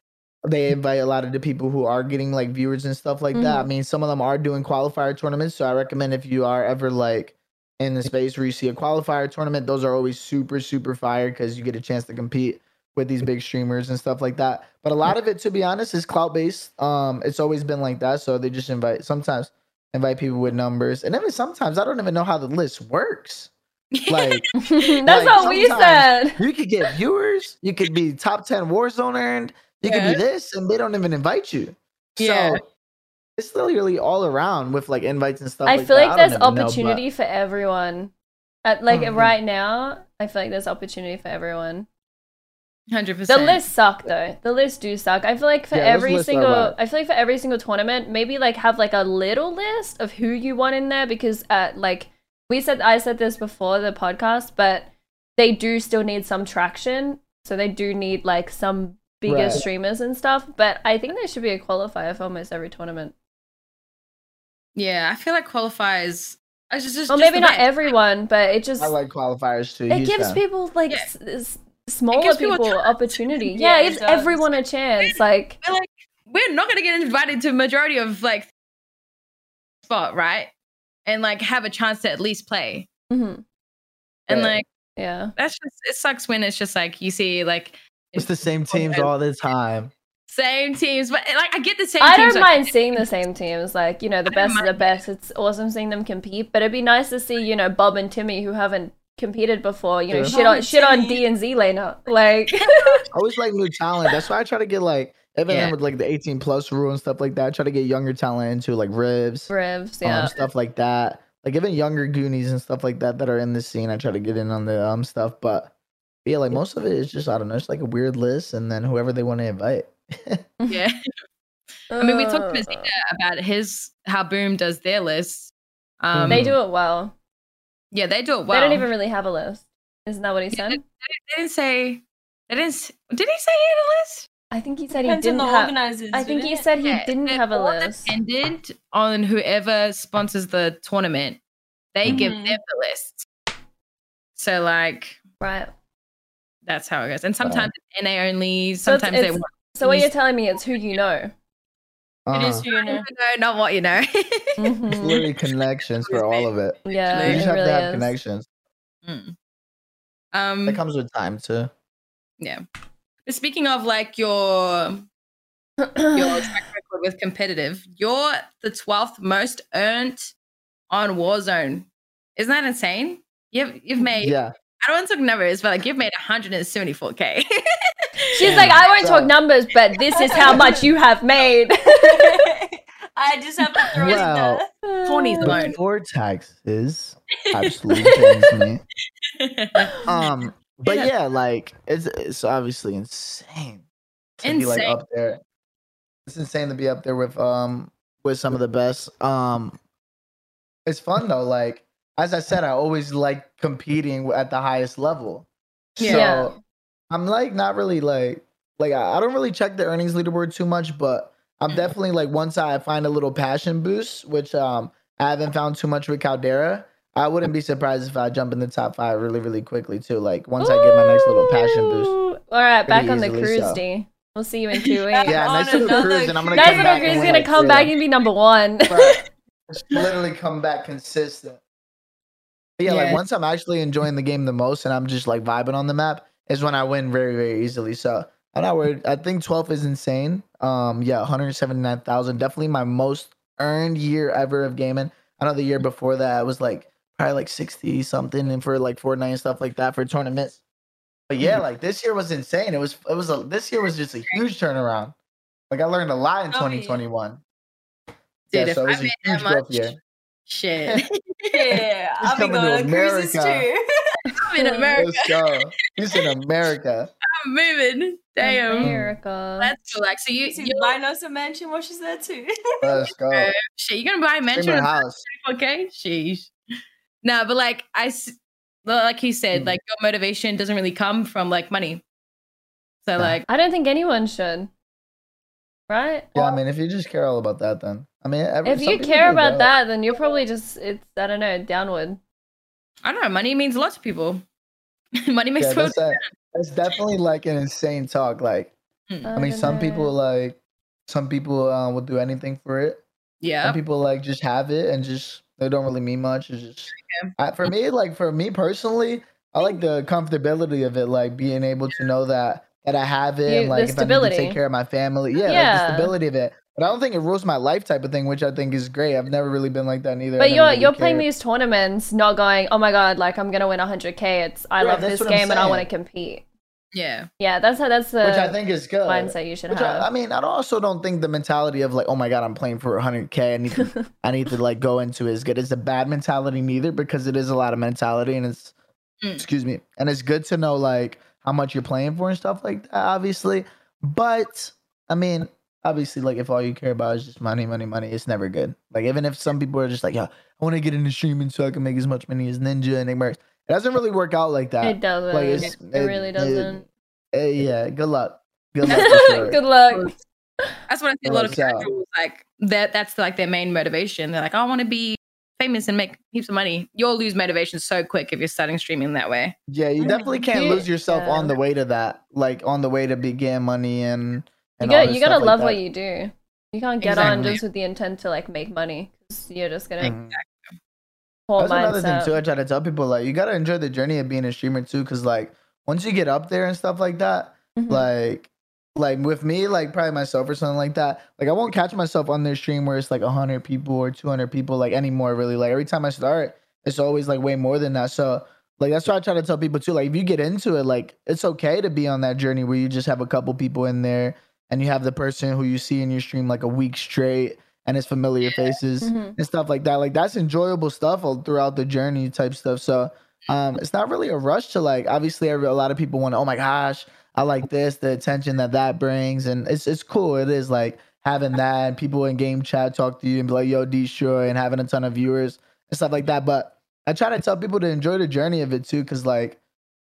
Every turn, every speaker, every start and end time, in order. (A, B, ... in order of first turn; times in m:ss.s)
0:00.5-0:23.5 A
0:03.3-0:03.7 B
0:23.9-0:24.5 C
0:24.1-0:24.5 A
0:24.6-0:26.4 B
0:25.1-0:32.6 A
0:29.8-0:30.2 C
0:32.2-0:32.6 C
0:33.4-0:37.0 A
0:35.7-0:38.1 B
0:38.6-0:41.9 B
0:38.9-0:39.4 A
0:42.9-0:43.7 C
0:43.3-1:03.1 B
0:45.7-0:46.8 A
0:59.3-0:59.6 A
1:04.8-1:07.9 C
1:07.1-1:09.0 B
1:08.8-1:10.4 A
1:09.9-1:15.6 B
1:12.1-1:13.2 C
1:13.5-1:14.5 D
1:15.6-1:18.5 C
1:19.8-1:20.5 C
1:21.1-1:22.9 C
1:23.1-1:23.4 B
1:24.3-1:24.7 C
1:24.3-1:24.6 A
1:25.0-1:25.3 B
1:25.4-1:29.1 C
1:28.2-1:29.9 A
1:30.3-1:33.0 C
1:32.0-1:43.0 B
1:34.3-1:35.0 C
1:40.1-1:40.4 A
1:40.2-1:41.2 D
1:42.6-1:43.0 C
1:43.1-1:49.5 A
1:45.5-1:45.7 C
1:49.5-1:50.3 B
1:50.0-1:55.7 A
1:56.2-2:00.5 A
2:00.7-2:01.0 C
2:01.9-2:02.9 B
2:02.0-2:06.5 C
2:06.1-2:06.6 A
2:06.3-2:07.2 B
2:07.9-2:08.9 C
2:08.5-2:10.8 B
2:10.5-2:14.3 C
2:14.5-2:18.2 B
2:15.0-2:16.6 D
2:16.8-2:21.4 C
2:22.0-2:23.3 C
2:22.1-2:22.6 D
2:24.4-2:25.2 C
2:25.4-2:25.7 B
2:26.6-2:30.1 C
2:27.4-2:27.7 A
2:28.8-2:31.3 B
2:32.3-2:32.7 A
2:32.3-2:34.6 C
2:32.4-2:33.0 D
2:34.6-2:35.2 B
2:34.9-2:38.5 A
2:36.0-2:36.5 C
2:36.9-2:38.1 B
2:37.1-2:37.5 C
2:39.0-2:39.4 C
2:40.3-2:40.8 C
2:40.7-2:41.7 A
2:43.2-2:45.1 C
2:45.8-2:46.6 B
2:46.1-2:50.3 C
2:50.9-2:57.6 C
2:54.2-2:54.5 A
2:58.3-3:02.3 B
2:58.4-2:58.8 C
2:58.4-2:59.3 A
3:00.2-3:00.8 D
3:00.3-3:00.6 C
3:02.0-3:04.7 D
3:03.8-3:04.2 C
3:04.0-3:04.6 A
3:04.8-3:05.6 B
3:05.0-3:05.8 C
3:05.4-3:08.8 A
3:07.6-3:08.6 C
3:09.3-3:10.0 C
3:10.1-3:13.8 A
3:10.8-3:11.1 C
3:14.4-3:15.4 A
3:14.4-3:15.0 C
3:16.3-3:19.8 A
3:20.9-3:26.6 A
3:26.0-3:26.3 C
3:26.1-3:26.6 B
3:27.1-3:42.2 A
3:40.6-3:49.2 B
3:42.9-3:43.8 A
3:45.1-3:47.5 D
3:45.2-3:47.9 A
3:48.9-3:51.6 A
3:52.8-4:10.6 A
3:52.9-3:53.2 C
4:11.3-4:15.1 A
4:15.7-4:17.4 A
4:16.5-4:17.0 D
4:18.5-4:20.0 C
4:18.5-4:20.0 A
4:20.5-4:21.8 C
4:21.5-4:24.2 D
4:22.2-4:23.7 A
4:24.3-4:25.6 C
4:24.4-4:25.0 B
4:25.0-4:27.1 A
4:27.3-4:28.9 C
4:28.4-4:29.7 B
4:28.8-4:29.1 A
4:29.6-4:31.0 C
4:30.5-4:33.0 D
4:32.8-4:33.5 A
4:33.3-4:36.5 C
4:34.5-4:35.3 A
4:37.2-4:42.0 C
4:39.5-4:39.8 A
4:43.0-4:43.5 C
4:43.5-4:44.7 B
4:45.9-4:46.6 B
4:46.4-4:49.7 A
4:48.6-4:52.2 B
4:53.0-4:54.4 C
4:55.3-4:56.2 C
4:55.6-4:58.7 A
4:59.3-5:00.1 B
4:59.3-5:03.0 A
5:03.4-5:03.8 C
5:03.6-5:21.3 A
5:06.9-5:07.3 C
5:13.5-5:14.6 B
5:15.4-5:16.1 B
5:20.4-5:26.4 B
5:24.8-5:25.9 A
5:26.9-5:27.3 C
5:27.4-5:30.1 B
5:28.2-5:38.7 A
5:39.4-5:59.6 A
5:54.8-5:56.8 B
5:58.8-6:00.2 C
5:58.9-6:00.1 B
6:00.9-6:09.6 C
6:01.2-6:01.9 A
6:09.7-6:15.8 A
6:10.0-6:11.5 B
6:14.8-6:20.2 B
6:17.0-6:17.6 C
6:17.1-6:17.6 A
6:20.0-6:20.4 A
6:20.3-6:20.8 C
6:21.5-6:22.3 B
6:21.6-7:09.6 A
6:27.8-6:28.1 B
6:48.4-6:48.8 C
6:49.0-6:49.4 B